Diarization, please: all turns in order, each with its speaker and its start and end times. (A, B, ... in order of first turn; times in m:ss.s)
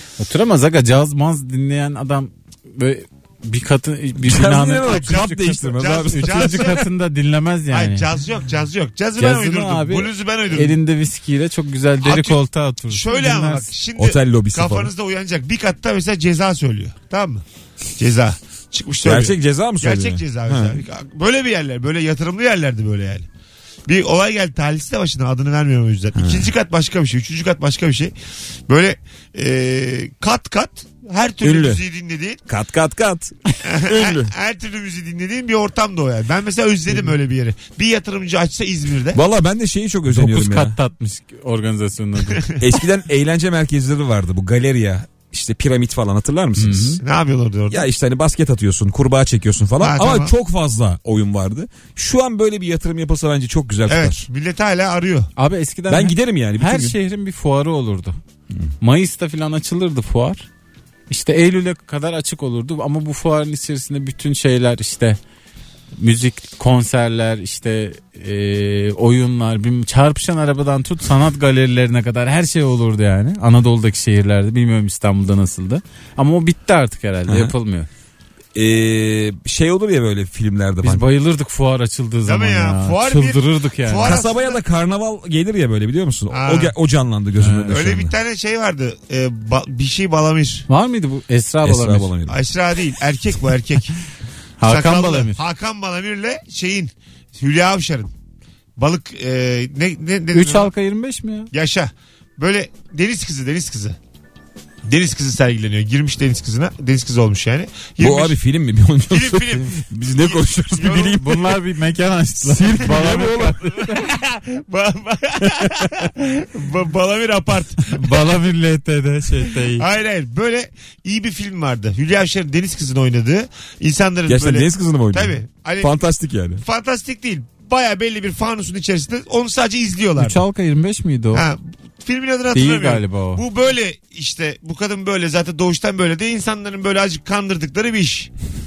0:00.2-0:08.1 A
0:04.2-0:06.8 B
0:04.9-0:05.2 C
0:05.8-0:06.8 C
0:07.7-0:10.8 C
0:09.2-0:13.7 A
0:12.0-0:17.4 C
0:14.0-0:14.9 B
0:18.0-0:23.3 C
0:19.0-0:20.8 B
0:23.9-0:28.1 C
0:26.2-0:26.5 B
0:28.7-0:32.4 C
0:31.4-0:31.8 B
0:32.5-0:34.3 B
0:33.6-0:39.2 C
0:39.1-0:40.8 B
0:40.1-0:42.4 A
0:42.3-0:42.6 C
0:42.6-0:47.0 B
0:46.6-0:47.0 A
0:47.0-0:47.8 C
0:47.7-0:54.3 B
0:49.8-0:50.3 C
0:53.9-0:55.3 C
0:55.4-0:58.2 A
0:55.9-0:57.0 B
0:58.8-1:00.5 A
1:01.1-1:05.2 A
1:06.0-1:17.9 A
1:17.3-1:17.5 B
1:18.6-1:21.1 B
1:20.8-1:24.2 A
1:22.3-1:24.6 C
1:24.0-1:28.1 B
1:26.3-1:26.7 C
1:27.4-1:27.8 A
1:27.7-1:30.7 C
1:30.7-1:32.1 A
1:31.6-1:32.4 B
1:32.3-1:34.0 C
1:34.6-1:35.4 A
1:34.6-1:38.1 C
1:38.8-1:40.7 C
1:40.3-1:41.5 A
1:41.5-1:44.0 C
1:44.8-1:48.4 C
1:48.0-1:51.6 B
1:49.1-1:51.2 C
1:51.0-1:54.0 A
1:52.4-1:53.8 B
1:53.0-1:58.1 C
1:57.8-1:59.8 A
1:59.5-2:05.9 C
2:04.3-2:06.6 B
2:06.6-2:10.4 C
2:10.2-2:11.5 A
2:11.3-2:18.3 C
2:12.5-2:13.4 A